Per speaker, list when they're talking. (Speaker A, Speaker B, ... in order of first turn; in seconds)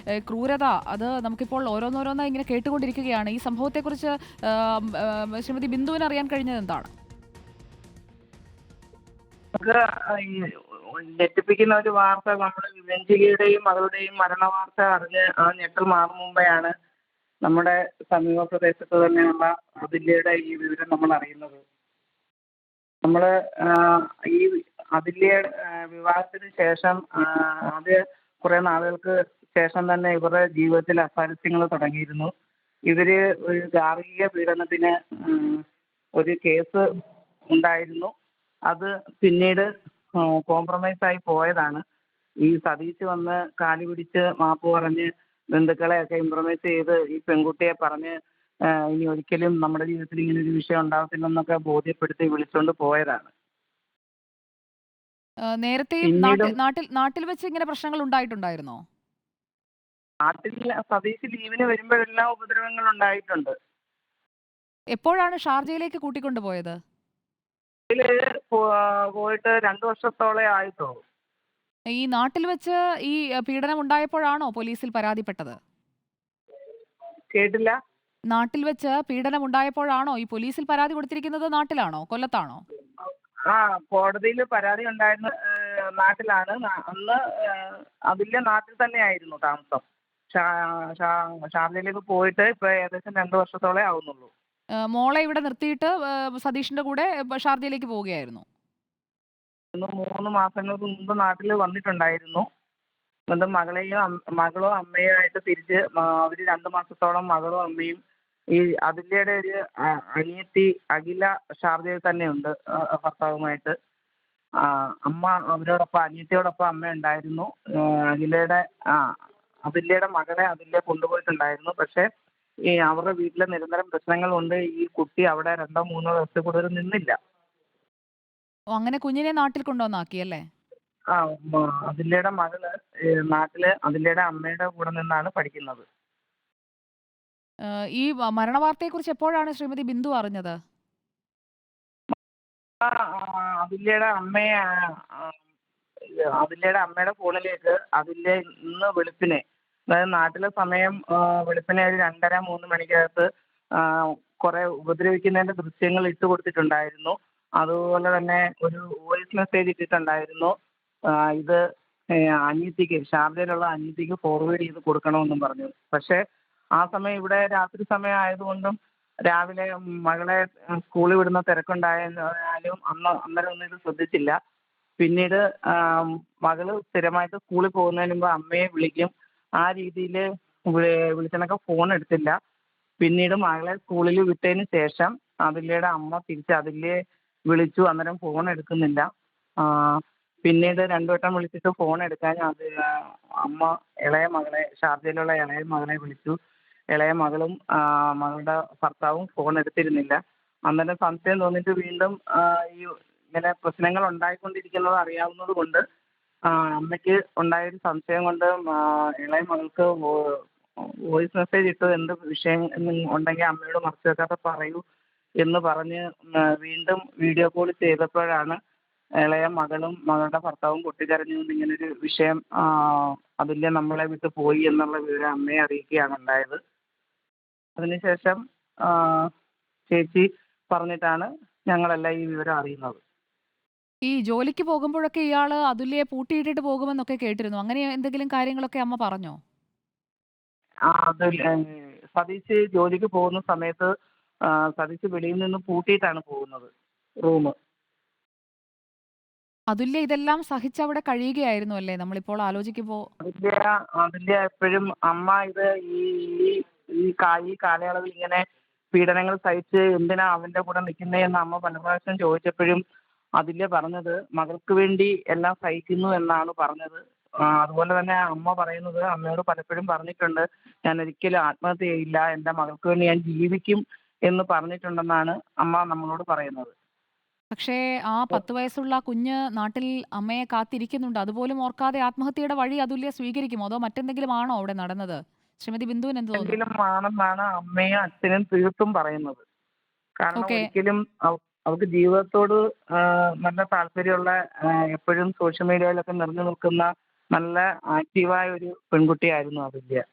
Speaker A: 0.3-6.9, 55.5-58.8, 64.9-66.8, 71.9-75.6, 78.3-82.6, 94.9-98.4, 128.7-130.4, 137.7-140.6, 234.0-239.4, 249.7-253.1, 277.5-286.6, 290.4-290.7
Speaker B: 9.5-16.7, 17.4-21.6, 23.0-32.3, 32.9-35.6, 36.2-36.8, 37.5-38.1, 38.7-41.8, 42.4-48.1, 48.7-53.3, 56.0-56.5, 60.2-63.5, 67.9-71.0, 77.3-77.8, 83.0-94.3, 99.7-102.5, 103.3-108.0, 108.5-113.7, 114.6-119.1, 119.7-122.0, 122.7-127.1, 131.1-132.7, 133.3-135.8, 142.8-145.3, 146.4-153.2, 153.8-160.5, 161.1-161.6, 162.1-166.2, 166.8-174.4, 175.0-182.4, 183.0-186.9, 187.5-189.1, 189.6-196.4, 196.9-205.8, 206.5-210.3, 211.1-214.8, 215.4-218.6, 219.2-226.6, 227.8-229.3, 229.9-233.0, 240.9-243.9, 244.5-246.7, 247.2-247.5, 253.2-262.8, 263.4-276.7, 286.4-289.4, 290.2-300.0